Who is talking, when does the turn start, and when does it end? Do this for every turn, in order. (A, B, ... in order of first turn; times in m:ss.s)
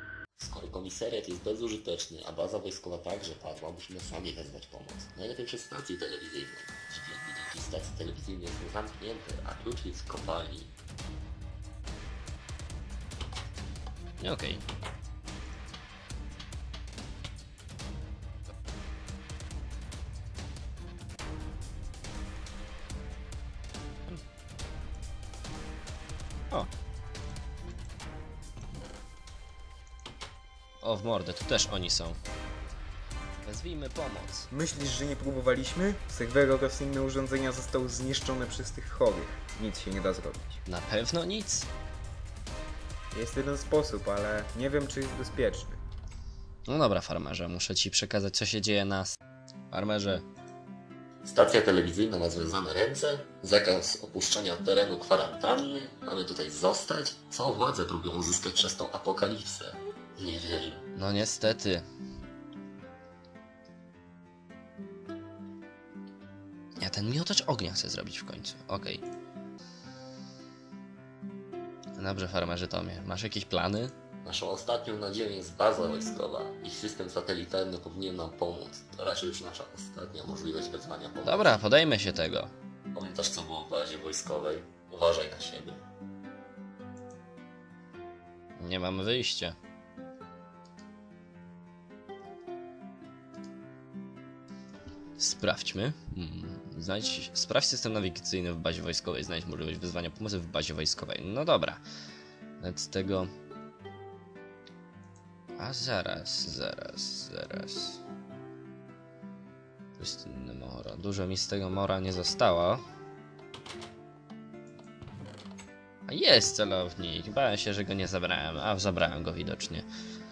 0:00.4-0:10.7 A
0:14.2-0:14.6 B
0:30.8-0:32.2 B
0:33.4-0:34.5 B
0:34.5-0:40.6 C
0:40.7-0:41.7 B
0:43.1-0:45.8 C
0:46.7-0:49.2 B
0:49.7-0:50.2 B
0:51.2-1:00.8 A
1:01.0-1:01.8 B
1:06.8-1:09.0 B
1:12.0-1:13.9 B
1:14.2-1:21.6 A
1:21.2-1:22.5 B
1:22.9-1:25.8 A
1:28.6-1:29.6 B
1:35.2-1:41.8 B
1:42.6-1:43.3 B
1:45.6-1:48.0 B
1:50.0-1:52.8 B
1:56.1-1:59.9 B